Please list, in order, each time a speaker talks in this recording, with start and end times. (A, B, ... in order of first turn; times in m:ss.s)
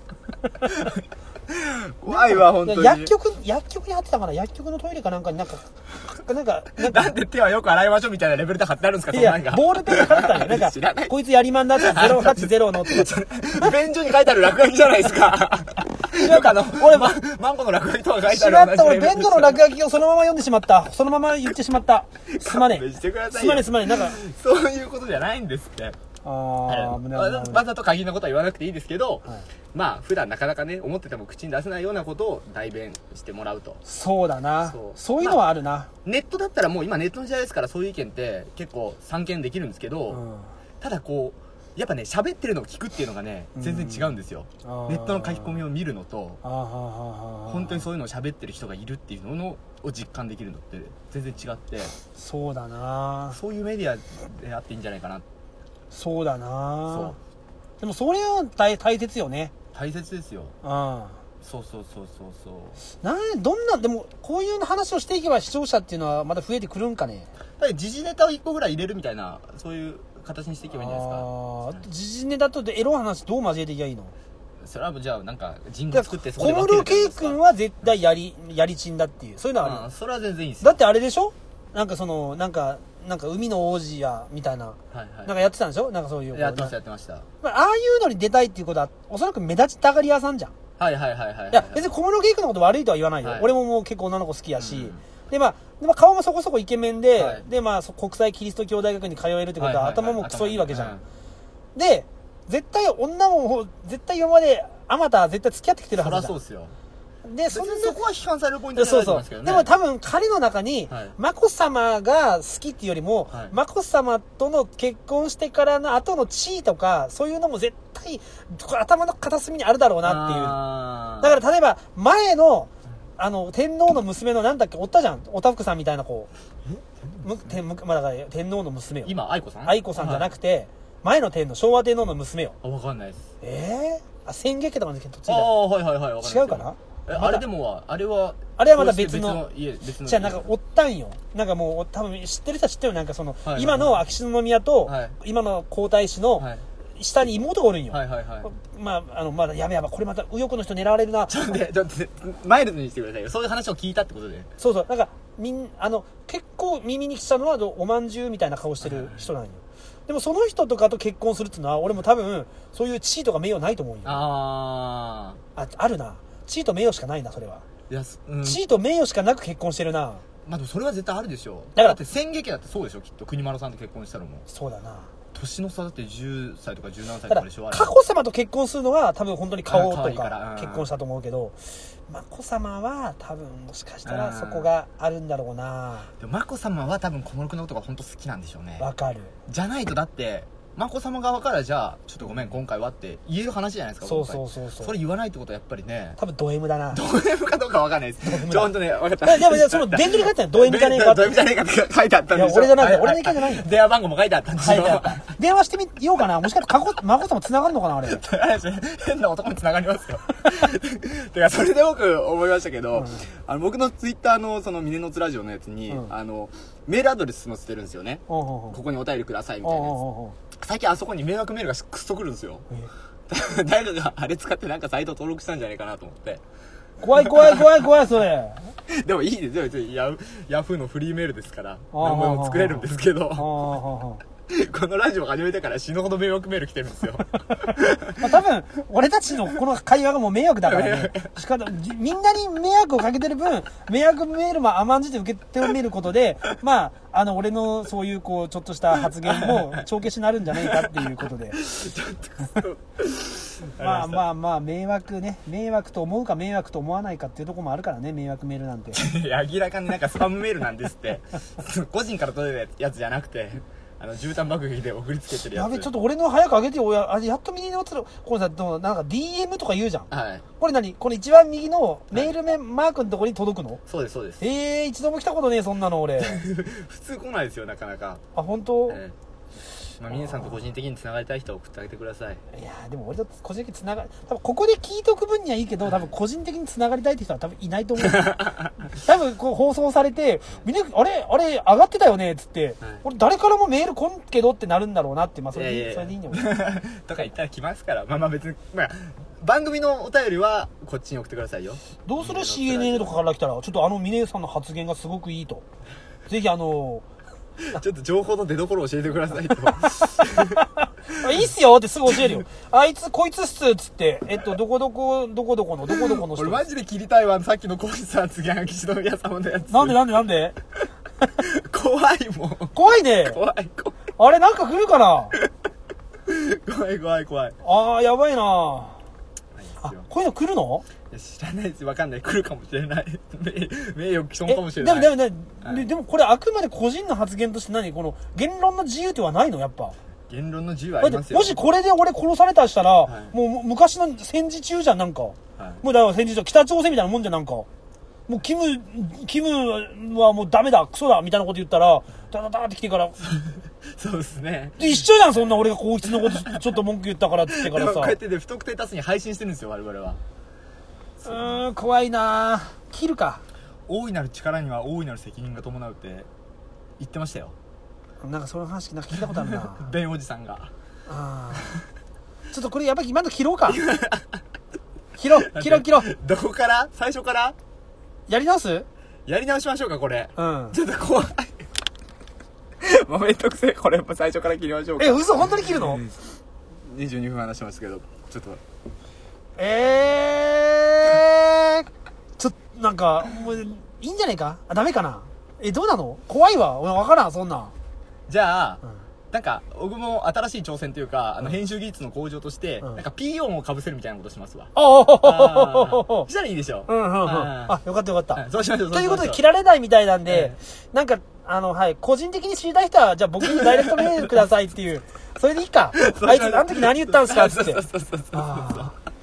0:00.5-0:01.0 A
0:00.6-0:03.1 B
0:02.1-0:07.1 A
0:06.8-0:11.1 B
0:09.1-0:13.7 A
0:11.8-0:19.6 B
0:16.0-0:17.2 A
0:18.3-0:24.2 A
0:22.3-0:26.0 B
0:26.2-0:27.6 A
0:26.6-0:33.8 B
0:33.8-0:35.9 A
0:34.6-0:35.4 B
0:36.0-0:40.2 B
0:40.1-0:40.5 A
0:40.8-0:46.4 B
0:43.5-0:45.6 A
0:46.4-0:47.8 A
0:47.5-0:51.9 B
0:52.1-0:53.4 A
0:53.3-0:55.2 B
0:55.9-0:57.2 A
0:56.9-0:57.2 B
0:57.8-0:59.5 A
0:59.7-1:00.5 B
1:00.6-1:01.2 A
1:01.4-1:02.8 B
1:03.0-1:07.3 A
1:07.6-1:11.8 B
1:10.7-1:14.1 A
1:14.6-1:17.4 B
1:15.9-1:19.8 A
1:19.6-1:20.8 B
1:20.6-1:26.7 A
1:24.9-1:25.3 B
1:26.3-1:27.3 B
1:27.4-1:30.5 A
1:30.8-1:31.9 B
1:31.5-1:40.9 A
1:33.2-1:33.5 B
1:34.6-1:35.0 B
1:37.2-1:37.4 B
1:39.6-1:41.0 B
1:41.7-1:46.4 A
1:46.0-1:46.7 B
1:47.2-1:48.0 A
1:47.5-1:49.7 B
1:48.7-2:00.6 A
1:50.9-1:51.2 B
1:53.3-1:53.6 B
2:00.0-2:01.4 B
2:01.2-2:06.3 A
2:06.6-2:07.6 B
2:07.2-2:12.6 A
2:09.0-2:10.3 B
2:12.6-2:13.3 B
2:13.4-2:15.6 A
2:15.3-2:20.5 B
2:16.2-2:17.4 A
2:18.6-2:19.4 A
2:20.0-2:31.6 A
2:23.4-2:24.0 B
2:24.8-2:25.1 B
2:26.4-2:26.6 B
2:27.9-2:28.5 B
2:31.3-2:34.5 B
2:34.6-2:44.3 A
2:38.8-2:39.3 B
2:44.0-2:45.4 B
2:45.6-2:47.6 A
2:47.9-2:48.6 B
2:48.4-2:50.2 A
2:50.4-2:54.4 B
2:54.5-2:55.1 A
2:55.3-2:57.9 B
2:57.3-3:01.6 A
2:59.7-3:00.9 B
3:02.1-3:06.1 A
3:04.0-3:04.7 B
3:06.2-3:08.8 B
3:08.8-3:09.3 A
3:09.5-3:16.2 B
3:14.0-3:14.9 A
3:16.2-3:17.0 A
3:16.9-3:25.3 B
3:18.2-3:21.3 A
3:22.3-3:23.7 A
3:24.6-3:28.2 A
3:28.0-3:40.0 B
3:32.9-3:33.3 A
3:38.3-3:38.8 A
3:39.6-3:40.4 A
3:40.5-3:42.6 B
3:43.3-3:46.4 B
3:47.0-3:48.7 A
3:47.2-3:47.7 B
3:48.9-3:53.5 B
3:51.9-3:54.2 A
3:54.5-3:58.3 B
3:57.6-4:11.6 A
4:00.6-4:01.3 B
4:09.0-4:09.8 B
4:10.6-4:14.2 B
4:13.8-4:19.0 A
4:18.9-4:25.9 B
4:25.5-4:33.8 A
4:30.1-4:30.4 B
4:33.9-4:34.4 B
4:34.4-4:36.4 A
4:36.2-4:38.2 B
4:38.3-4:39.0 A
4:38.9-4:39.1 B
4:40.0-4:42.4 B
4:40.2-4:40.5 A
4:42.5-4:48.4 A
4:48.0-4:48.9 B
4:48.9-4:56.5 A
4:55.5-5:03.2 B
5:02.0-5:05.6 A
5:06.3-5:07.0 A
5:07.7-5:11.5 B
5:09.8-5:16.6 A
5:15.9-5:20.0 B
5:19.7-5:20.6 A
5:21.4-5:24.0 B
5:22.7-5:23.4 A
5:24.2-5:25.4 A
5:26.2-5:27.6 B
5:27.6-5:29.0 A
5:29.6-5:30.0 B
5:29.8-5:30.8 A
5:31.1-5:35.8 B
5:34.4-5:39.9 A
5:40.3-5:41.6 B
5:41.0-5:47.7 A
5:43.0-5:43.3 B
5:45.6-5:45.8 B
5:48.3-5:53.2 A
5:53.2-5:55.0 B
5:54.8-5:58.2 A
5:56.1-5:56.6 B
5:57.5-6:00.2 B
6:01.2-6:01.6 B
6:01.2-6:03.4 A
6:03.9-6:06.3 B
6:07.0-6:07.5 B
6:08.2-6:09.9 A
6:09.1-6:10.7 B
6:11.1-6:11.8 A
6:12.5-6:13.8 A
6:13.7-6:14.4 B
6:15.2-6:16.1 A
6:15.3-6:17.6 B
6:18.3-6:18.9 A
6:19.3-6:21.6 B
6:20.4-6:20.8 A
6:22.8-6:26.2 B
6:25.0-6:26.0 A
6:26.8-6:28.6 B
6:29.6-6:37.7 A
6:38.3-6:47.8 B
6:44.7-6:46.3 A
6:46.9-6:58.9 A
6:48.3-6:49.4 B
6:50.2-6:50.6 B
6:53.4-6:54.4 B
6:55.9-6:58.9 B